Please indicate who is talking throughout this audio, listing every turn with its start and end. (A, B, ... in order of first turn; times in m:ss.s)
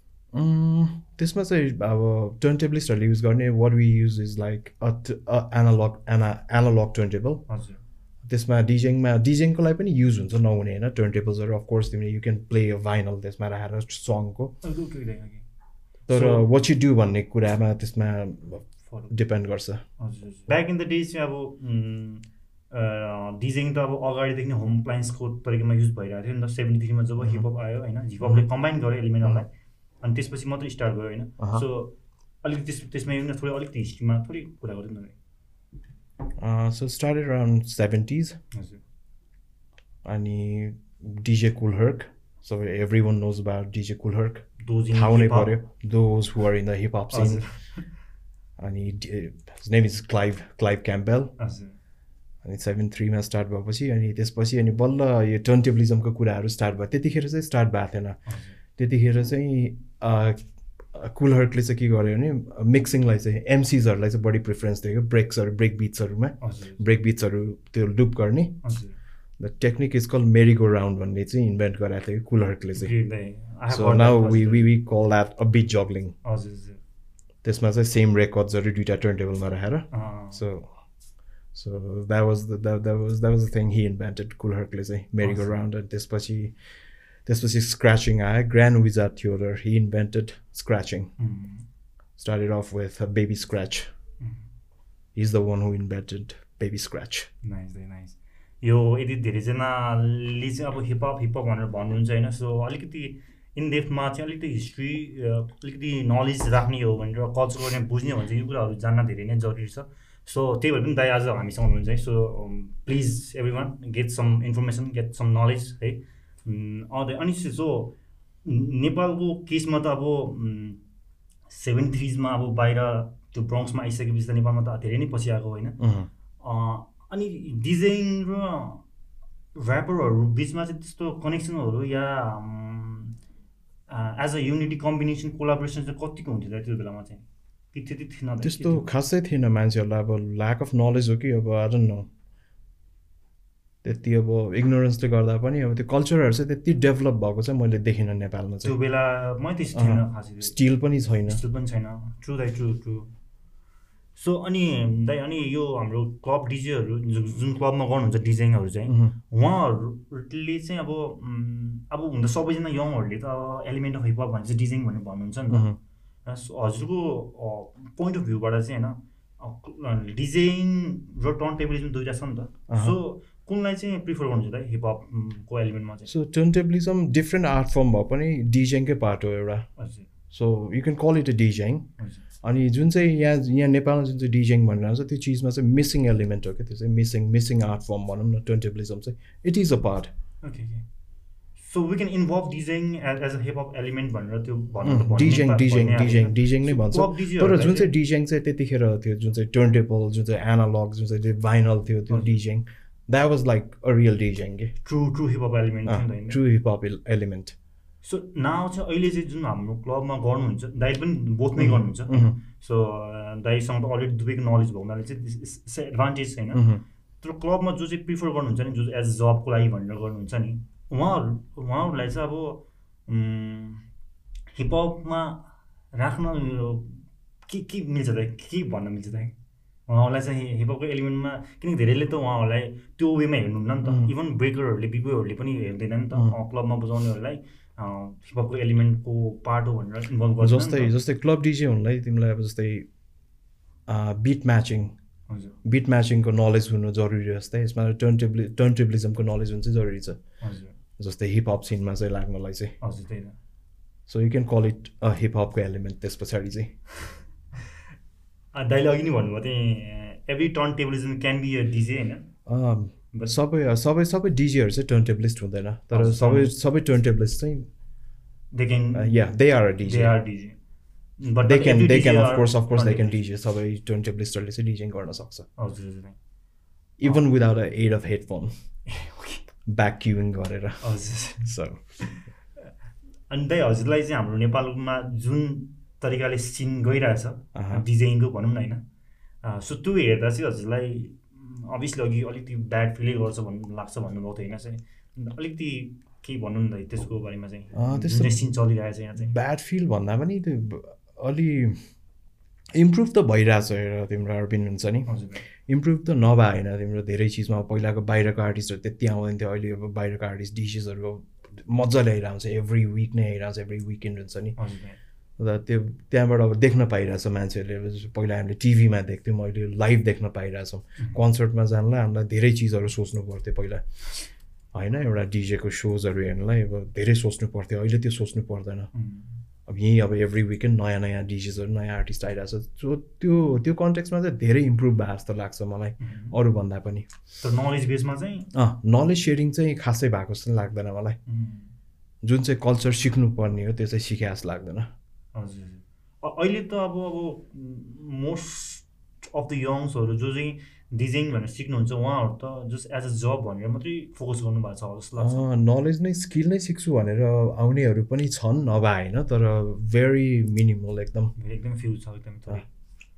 0:00.3-0:07.4 A
0:07.5-0:07.8 B
0:08.2-0:14.5 A
0:14.6-0:15.4 B
0:16.1-0:16.5 B
0:16.1-0:19.8 A
0:20.0-0:29.5 B
0:30.0-0:35.2 B
0:31.4-0:31.6 A
0:36.4-0:38.4 A
0:38.5-0:38.8 B
0:40.0-0:47.4 A
0:44.6-0:45.6 B
0:47.1-0:47.8 B
0:48.6-0:51.3 A
0:51.4-0:51.8 B
0:52.4-0:58.2 A
0:58.3-0:58.6 B
0:58.8-1:00.4 A
1:00.9-1:08.6 A
1:06.4-1:06.8 B
1:08.6-1:09.0 B
1:09.4-1:12.9 A
1:12.7-1:14.7 B
1:13.7-1:16.1 A
1:16.2-1:16.8 B
1:17.4-1:20.7 A
1:19.9-1:20.4 B
1:21.5-1:26.5 A
1:25.2-1:25.6 B
1:27.2-1:31.1 A
1:31.2-1:31.6 B
1:32.2-1:33.9 A
1:35.1-1:37.3 A
1:37.4-2:00.8 B
2:01.5-2:05.8 B
2:05.8-2:06.1 A
2:06.4-2:08.8 B
2:09.5-2:13.1 B
2:13.9-2:18.9 B
2:18.4-2:22.1 A
2:23.8-2:28.8 A
2:28.6-2:30.6 B
2:29.7-2:31.4 A
2:31.3-2:33.1 B
2:34.2-2:45.7 B
2:38.9-2:39.1 A
2:45.5-2:45.8 A
2:46.2-2:56.1 B
2:52.7-2:53.0 A
2:56.1-2:59.7 A
2:59.8-3:00.1 B
3:00.3-3:01.9 A
3:02.0-3:02.2 B
3:02.4-3:10.1 A
3:10.4-3:10.8 B
3:11.6-3:17.9 B
3:14.8-3:24.7 A
3:22.1-3:22.3 B
3:24.8-3:26.4 B
3:25.8-3:27.5 A
3:28.0-3:36.7 B
3:31.6-3:32.4 A
3:36.5-3:36.8 A
3:37.2-3:43.8 B
3:44.5-3:49.3 B
3:49.9-4:00.9 B
3:53.8-3:54.1 A
4:00.4-4:02.9 A
4:03.9-4:04.9 A
4:05.3-4:05.6 B
4:05.6-4:10.2 A
4:10.4-4:10.7 B
4:11.0-4:12.7 A
4:12.8-4:13.4 B
4:14.1-4:16.7 A
4:18.5-4:22.3 B
4:22.5-4:27.7 A
4:25.9-4:26.5 B
4:28.5-4:29.2 B
4:28.9-4:30.2 A
4:29.8-4:30.6 B
4:31.2-4:33.2 B
4:31.4-4:35.4 A
4:35.6-4:36.2 B
4:37.0-4:38.5 A
4:38.9-4:39.4 B
4:39.6-4:40.8 A
4:40.8-4:42.2 B
4:41.4-4:41.8 A
4:43.3-4:48.8 B
4:47.5-4:47.8 A
4:49.4-4:59.3 B
4:57.7-4:58.4 A
4:59.2-5:01.8 A
5:02.7-5:05.1 A
5:05.1-5:05.4 B
5:05.6-5:14.5 A
5:14.6-5:15.0 B
5:15.4-5:23.8 A
5:24.7-5:28.9 A
5:28.9-5:29.4 B
5:29.7-5:37.1 A
5:36.0-5:36.4 B
5:37.4-5:38.5 B
5:38.5-5:41.2 A
5:41.3-5:41.7 B
5:42.2-5:44.9 A
5:45.3-5:55.4 B
5:55.2-6:01.3 A
6:01.4-6:02.7 B